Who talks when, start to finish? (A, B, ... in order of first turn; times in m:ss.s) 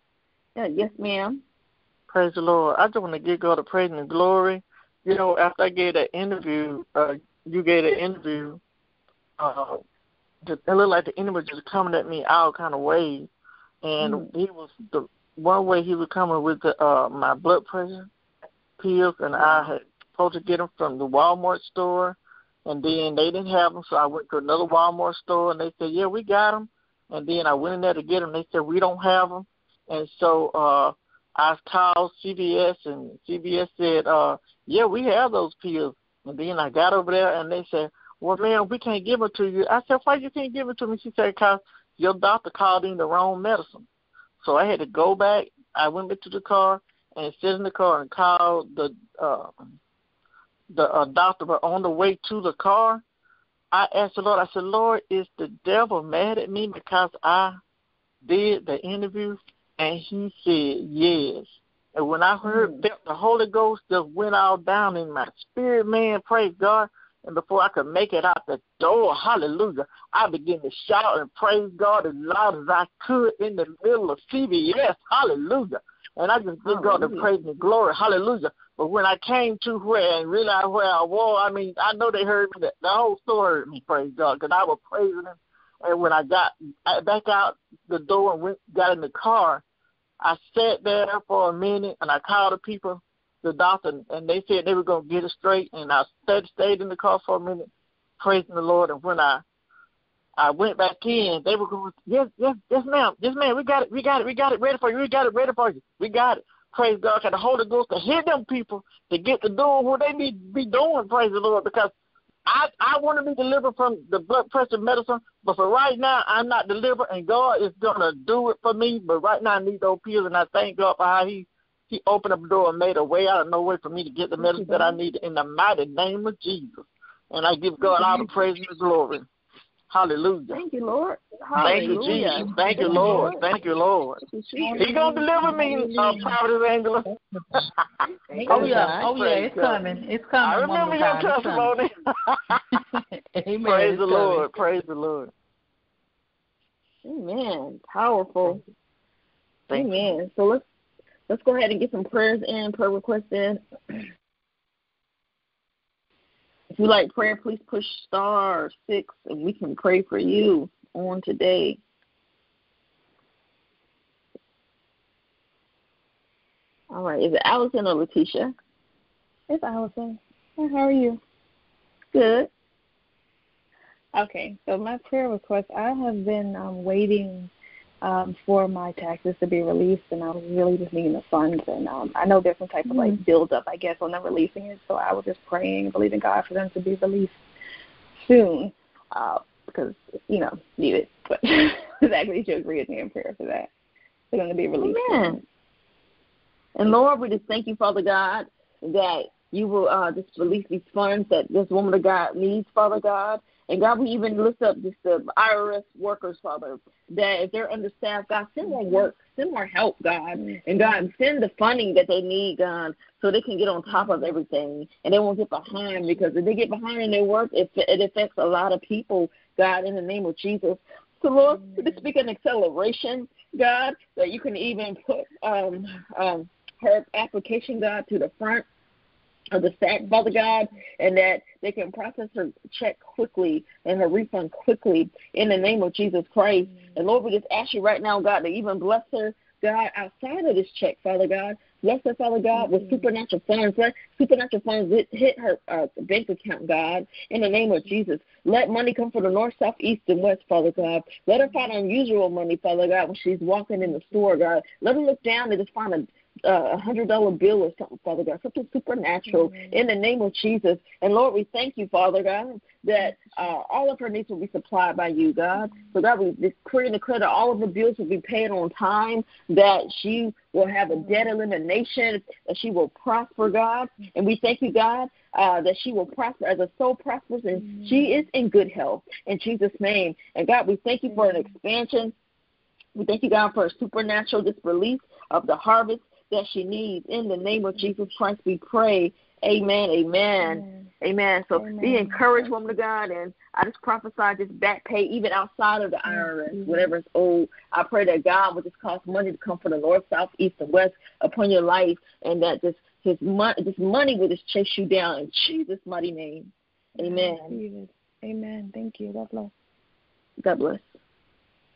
0:00.6-0:01.4 A
0:02.1-0:08.6 B
0:09.4-0:09.8 B
0:10.4-0:13.3 B
0:13.8-0:18.1 B
0:14.0-0:14.3 A
0:18.8-0:43.9 B
0:44.4-0:49.6 B
0:50.7-0:53.0 B
0:53.7-0:57.6 B
0:58.2-1:29.6 B
1:02.4-1:02.8 C
1:16.6-1:17.3 A
1:30.2-1:39.4 B
1:40.4-1:51.9 B
1:52.4-2:09.2 B
2:04.4-2:04.8 A
2:04.5-2:04.9 C
2:07.9-2:08.3 A
2:09.9-2:10.6 B
2:10.5-2:13.5 A
2:11.6-2:14.2 B
2:11.6-2:13.4 C
2:14.2-2:16.3 A
2:14.5-2:16.3 C
2:14.7-2:17.7 B
2:18.3-2:19.1 A
2:18.3-2:22.6 B
2:18.4-2:21.8 D
2:22.7-2:24.5 D
2:23.6-2:25.3 B
2:27.0-2:28.6 A
2:29.7-2:30.1 B
2:29.7-2:30.6 A
2:31.3-2:33.6 A
2:36.7-2:41.8 A
2:46.9-2:48.5 A
2:49.5-2:51.2 C
2:52.1-2:52.5 A
2:54.1-3:07.4 C
3:08.2-3:13.7 C
3:14.3-3:15.4 C
3:14.8-3:15.4 A
3:16.8-3:48.6 A
3:28.6-3:29.1 C
3:30.4-3:31.1 C
3:33.9-3:34.2 C
3:41.5-3:42.0 C
3:49.5-4:42.1 A
4:02.6-4:03.0 C
4:19.3-4:19.8 C
4:37.6-4:38.2 C
4:41.1-4:41.5 C
4:43.0-5:07.6 A
4:50.4-4:50.9 C
4:51.5-4:52.5 C
4:56.1-4:56.9 C
5:07.0-5:09.5 C
5:10.4-5:10.9 A